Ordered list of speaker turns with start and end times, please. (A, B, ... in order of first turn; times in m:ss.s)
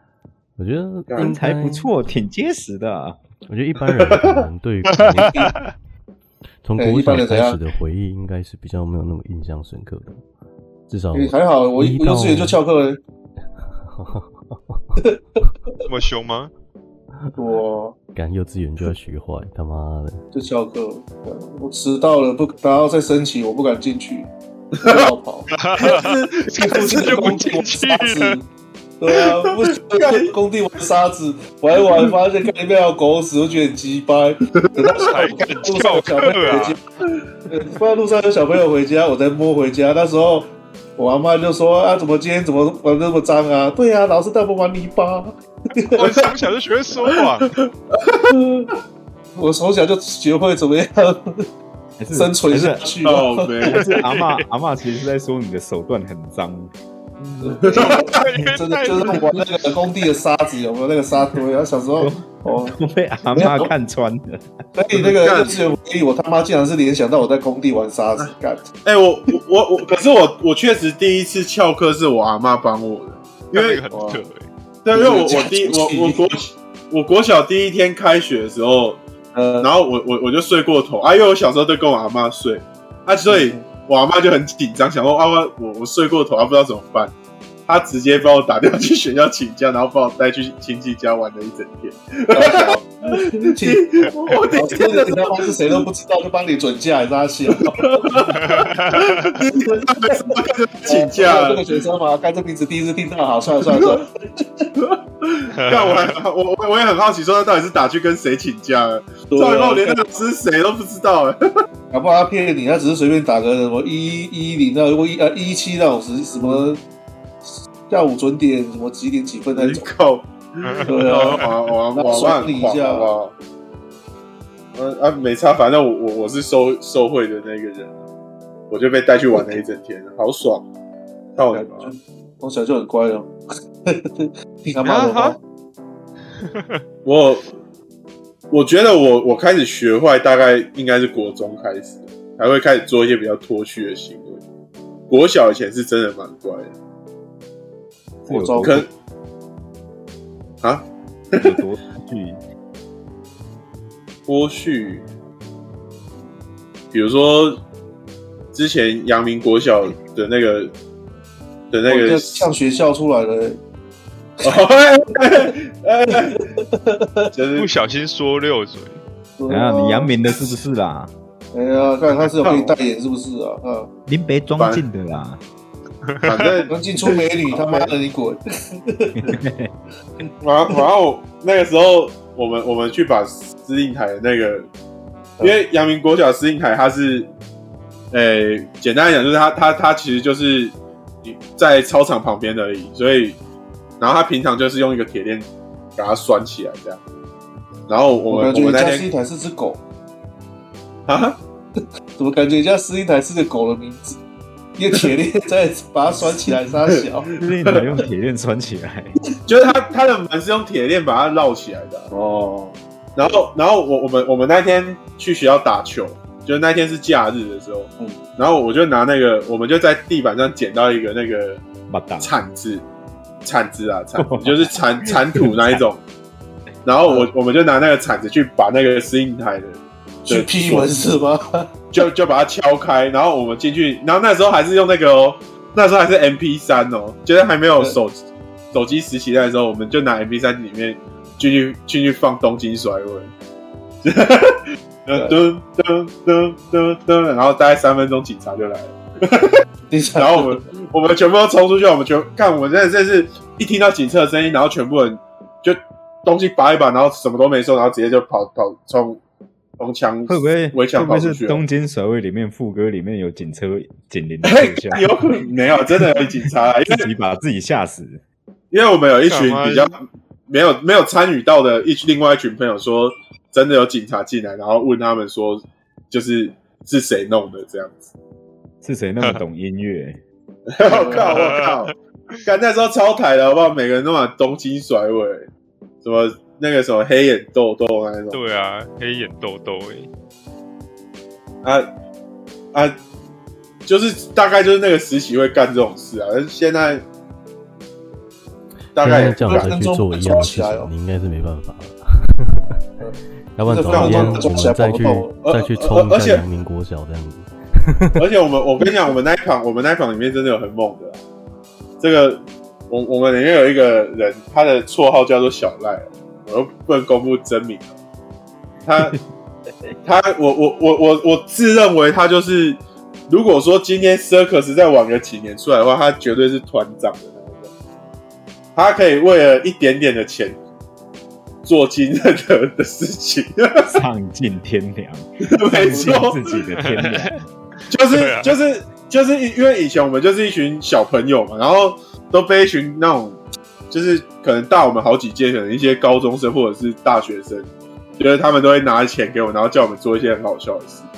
0:00.6-0:01.9 A
0:01.2-0:03.2 B
0:03.5-0:05.5 A
0:04.0-0:04.4 C
0:05.0-0:05.5 D
0:05.2-0:05.5 E
0:06.6-0:10.2 A
0:06.8-0:07.6 E
0:10.9-0:12.6 A
0:11.1-0:13.0 E
0:13.8-0:15.0 A
0:15.9-0:16.5 D
0:17.4-0:18.0 E
0:18.2-0:20.2 A
0:20.3-0:24.3 E
0:24.8-0:25.1 C
0:24.8-0:26.0 E
0:25.5-0:28.4 D
0:25.8-0:27.2 C
0:26.5-0:28.4 E
0:29.0-0:36.8 E
0:29.2-0:30.4 C
0:31.8-0:32.1 C
0:34.5-0:35.4 C
0:35.0-0:36.8 D
0:37.5-0:46.2 E
0:45.9-0:47.6 D
0:47.5-0:48.3 C
0:48.3-0:48.7 E
0:49.4-0:51.5 E
0:52.0-0:52.9 B
0:52.1-0:53.7 E
0:53.0-0:53.9 C
0:53.7-0:56.7 B
0:53.7-0:54.4 D
0:57.4-1:02.8 E
0:57.4-0:58.2 C
0:57.8-0:59.8 D
1:02.0-1:04.5 B
1:03.3-1:03.7 E
1:04.8-1:08.7 E
1:04.9-1:05.6 C
1:08.8-1:13.8 C
1:13.5-1:14.5 D
1:13.9-1:14.2 E
1:14.8-1:19.0 C
1:14.9-1:16.3 E
1:19.3-1:19.7 E
1:19.6-1:27.1 C
1:23.3-1:23.7 E
1:27.7-1:35.8 C
1:32.3-1:37.8 E
1:37.6-1:41.7 C
1:38.4-1:39.1 D
1:39.4-1:40.3 E
1:40.9-1:44.7 E
1:43.7-1:44.0 C
1:44.8-1:51.6 C
1:45.6-1:46.2 D
1:49.3-1:50.1 E
1:51.9-1:56.8 E
1:56.4-1:56.6 C
1:57.4-1:59.9 E
1:59.5-2:03.3 C
2:00.6-2:01.6 D
2:00.9-2:03.1 E
2:04.8-2:08.0 C
2:08.7-2:10.6 C
2:11.4-2:11.9 C
2:11.5-2:13.3 E
2:13.9-2:15.4 E
2:14.8-2:15.4 D
2:16.5-2:16.8 D
2:17.0-2:17.5 C
2:18.5-2:24.4 C
2:25.1-2:26.7 C
2:28.3-2:28.9 B
2:28.3-2:28.9 E
2:28.6-2:28.9 C
2:30.6-2:31.6 C
2:31.4-2:32.4 B
2:34.3-2:35.0 C
2:36.9-2:37.6 C
2:38.5-2:40.7 C
2:41.7-2:42.5 C
2:41.9-2:43.6 E
2:44.4-2:46.4 C
2:46.2-2:47.3 E
2:47.3-2:47.7 C
2:47.6-2:49.0 D
2:49.4-2:50.2 E
2:49.5-2:51.1 B
2:51.5-2:53.9 E
2:52.4-2:52.8 C
2:54.1-2:55.4 B
2:54.6-2:54.8 C
2:56.1-2:56.4 D
2:56.2-2:57.9 C
2:56.7-2:59.3 E
2:59.2-2:59.7 B
3:00.4-3:04.7 C
3:05.4-3:07.3 C
3:08.1-3:13.4 C
3:14.0-3:17.0 C
3:17.9-3:19.1 C
3:18.3-3:19.8 E
3:21.1-3:21.4 C
3:22.2-3:24.2 E
3:24.8-3:27.3 E
3:26.9-3:28.0 C
3:27.4-3:29.2 B
3:29.5-3:32.1 C
3:32.1-3:33.4 E
3:33.2-3:41.6 C
3:41.9-3:42.3 B
3:42.2-3:42.8 C
3:43.4-3:46.0 C
3:44.2-3:45.8 B
3:46.9-3:50.9 C
3:50.3-3:51.8 E
3:51.9-4:03.3 C
4:04.0-4:09.6 C
4:09.9-4:10.7 E
4:10.2-4:19.2 C
4:19.8-4:21.6 C
4:20.3-4:25.4 B
4:24.4-4:27.1 C
4:26.9-4:28.2 B
4:28.7-4:38.1 C
4:29.2-4:29.9 D
4:38.8-4:40.2 B
4:40.7-4:41.9 C
4:40.8-4:41.6 E
4:41.3-4:41.9 D
4:42.4-4:45.5 C
4:46.0-4:48.4 C
4:48.3-4:50.1 D
4:51.6-4:51.9 C
4:52.7-4:53.0 C
4:53.9-4:57.0 C
4:59.0-5:00.3 C
4:59.0-5:02.7 A
4:59.1-5:00.9 E
5:03.0-5:05.4 E
5:03.6-5:08.2 A
5:03.9-5:04.7 C
5:05.4-5:06.4 C
5:08.2-5:11.2 C
5:12.0-5:17.9 C
5:18.9-5:19.2 C
5:20.0-5:27.7 C
5:28.8-5:30.6 C
5:31.6-5:33.9 C
5:33.8-5:37.5 B
5:35.4-5:36.5 C
5:35.9-5:36.3 E
5:36.8-5:37.3 D
5:37.9-5:43.4 C
5:38.1-5:38.6 D
5:43.9-5:51.0 C